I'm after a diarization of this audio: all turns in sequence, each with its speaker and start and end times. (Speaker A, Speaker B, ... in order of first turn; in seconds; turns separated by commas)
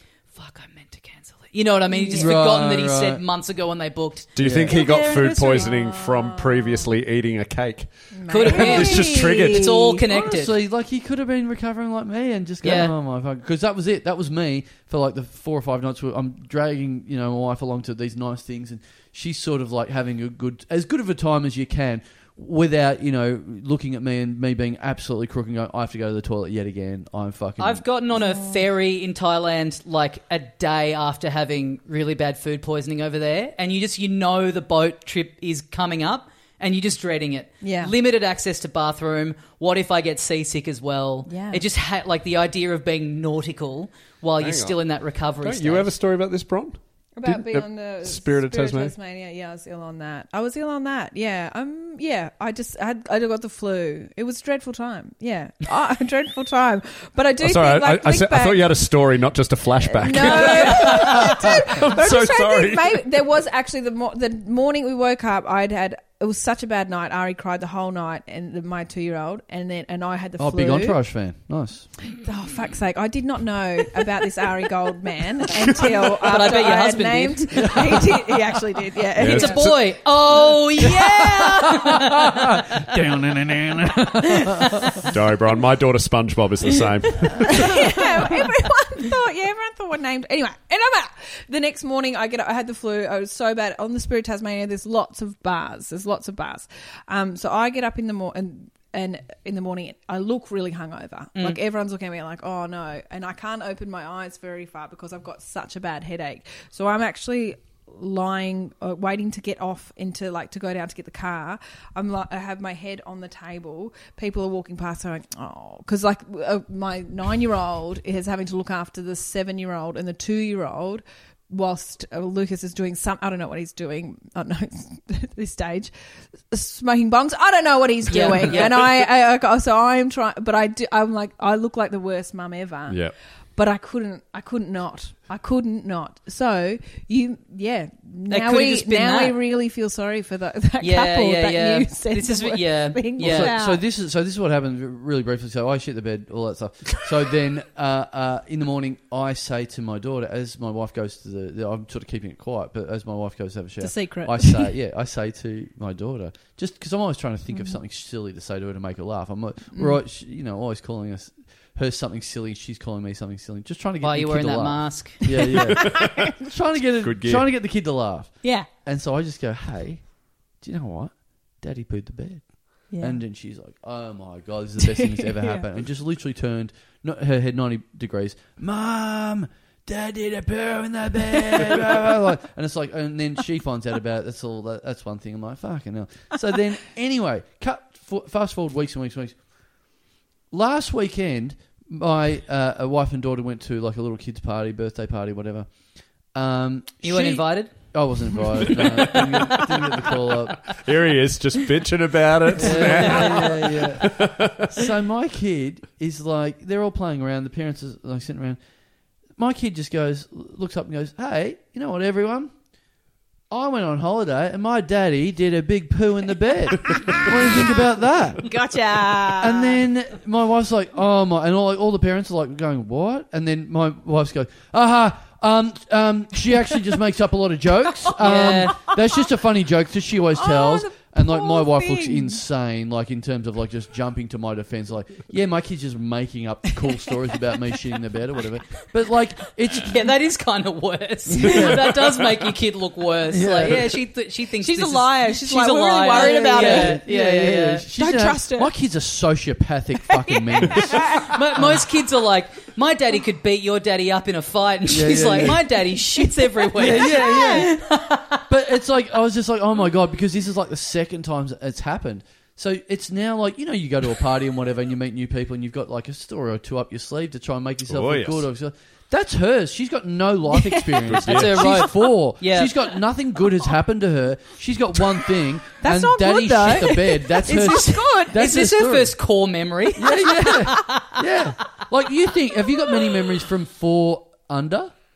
Speaker A: 0.3-5.7, Speaker B: 1.9-2.4, Speaker C: 2.1-3.2, Speaker D: 4.3-9.9, Speaker C: 4.4-4.8, Speaker B: 5.5-6.9, Speaker B: 8.1-10.0, Speaker A: 8.3-10.6, Speaker C: 10.1-27.8, Speaker A: 12.6-12.9, Speaker A: 27.6-45.9, Speaker B: 28.1-28.6, Speaker B: 37.6-37.9, Speaker B: 41.3-41.6, Speaker D: 44.4-44.8, Speaker D: 45.4-48.9, Speaker B: 47.2-58.7, Speaker D: 57.4-63.0, Speaker B: 59.8-71.0, Speaker A: 60.2-61.1, Speaker C: 70.4-71.9, Speaker B: 72.1-79.6, Speaker A: 76.2-78.0, Speaker C: 77.6-78.2, Speaker D: 79.2-79.9, Speaker A: 79.2-82.9, Speaker C: 80.8-85.0, Speaker A: 84.2-85.1, Speaker D: 85.1-87.9, Speaker B: 87.5-125.9, Speaker B: 126.5-143.8, Speaker A: 128.1-128.8, Speaker D: 132.9-133.1, Speaker A: 138.3-139.4, Speaker A: 140.8-143.6, Speaker C: 143.2-170.1, Speaker B: 153.8-154.7, Speaker A: 164.0-165.2, Speaker B: 165.3-166.3, Speaker D: 165.8-166.2, Speaker D: 167.0-167.4, Speaker C: 170.6-189.4, Speaker B: 172.9-173.2, Speaker B: 174.8-175.6, Speaker C: 190.5-195.7, Speaker C: 196.3-200.8, Speaker A: 197.0-199.3, Speaker D: 200.7-204.7, Speaker C: 202.6-208.6, Speaker A: 202.7-203.4, Speaker B: 203.1-203.5, Speaker C: 209.4-212.5, Speaker C: 213.5-218.5, Speaker B: 216.9-217.8, Speaker B: 218.4-219.8, Speaker C: 219.3-240.0, Speaker A: 228.2-228.8, Speaker B: 228.4-228.9, Speaker B: 230.4-232.4, Speaker A: 239.8-247.9, Speaker C: 241.3-241.9, Speaker C: 243.3-244.0, Speaker B: 244.6-247.1, Speaker C: 246.1-251.8, Speaker B: 247.9-248.7, Speaker B: 250.1-251.4, Speaker A: 251.2-258.5, Speaker C: 254.9-255.8, Speaker B: 256.2-257.8, Speaker C: 256.7-257.8, Speaker C: 258.5-279.1, Speaker D: 267.9-268.4, Speaker B: 270.5-271.1, Speaker D: 271.1-271.6, Speaker A: 271.2-272.7, Speaker B: 275.8-278.4, Speaker A: 278.3-281.2, Speaker C: 279.9-284.9, Speaker B: 280.0-280.7, Speaker B: 282.5-283.1